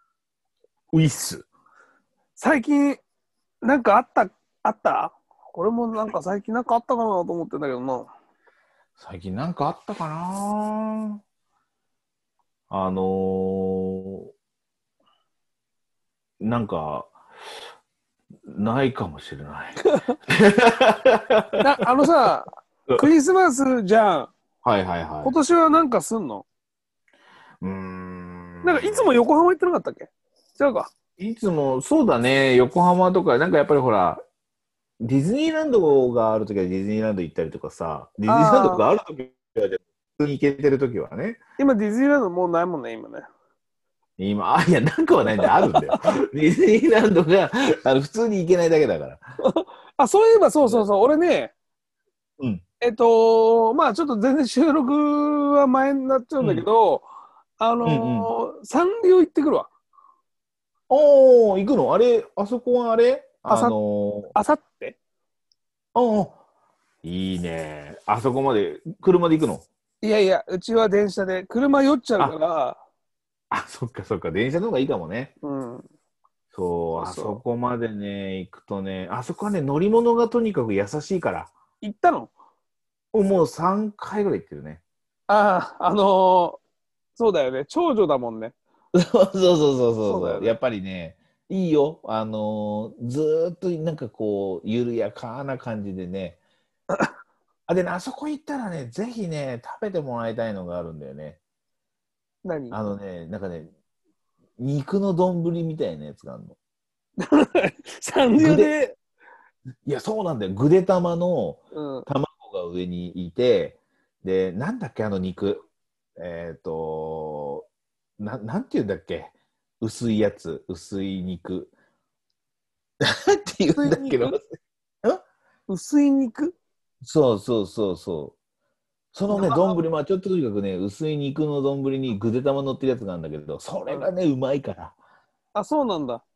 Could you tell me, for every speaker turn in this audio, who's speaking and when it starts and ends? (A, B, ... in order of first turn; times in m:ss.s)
0:00.9-0:01.4 A
0:02.4-0:03.0 B
0:03.6-0:08.1 B
0:09.0-0:11.2 A
0:12.7-0:14.3 A
0:16.4-0:17.1 A
0:18.5-0:21.6 A
0:19.9-0:20.1 B
0:21.6-0:24.3 B
0:24.6-0:25.3 A
0:25.2-0:26.4 B
0:27.6-0:29.1 A
0:28.6-0:30.9 B
0:31.2-0:34.2 A
0:35.0-0:41.4 A
0:38.3-0:38.8 B
0:41.6-0:43.2 B
0:44.2-0:49.2 A
0:45.4-0:46.1 B
0:49.4-0:51.5 B
0:50.6-0:50.9 A
0:52.8-0:57.0 B
0:56.4-0:56.6 A
0:57.6-0:59.7 B
0:57.8-0:58.3 A
1:00.9-1:04.3 A
1:03.5-1:03.8 B
1:04.3-1:05.0 B
1:05.9-1:06.4 A
1:07.0-1:09.6 A
1:10.0-1:12.8 B
1:13.5-1:15.3 A
1:15.4-1:15.9 B
1:16.5-1:21.5 A
1:17.0-1:17.4 B
1:21.8-1:22.3 B
1:23.1-1:24.8 A
1:25.3-1:26.6 B
1:27.2-1:28.5 B
1:28.9-1:36.4 A
1:30.0-1:30.6 B
1:37.7-1:41.4 A
1:42.4-1:42.8 B
1:42.7-1:43.7 A
1:44.6-1:46.6 A
1:47.2-1:49.0 B
1:48.3-1:48.7 A
1:49.8-1:55.6 A
1:51.7-1:52.1 B
1:56.2-1:57.6 A
1:58.2-2:01.7 A
2:03.0-2:04.5 A
2:03.7-2:04.4 B
2:05.7-2:06.5 B
2:07.0-2:08.4 A
2:09.1-2:15.0 A
2:09.3-2:09.8 B
2:15.5-2:16.2 B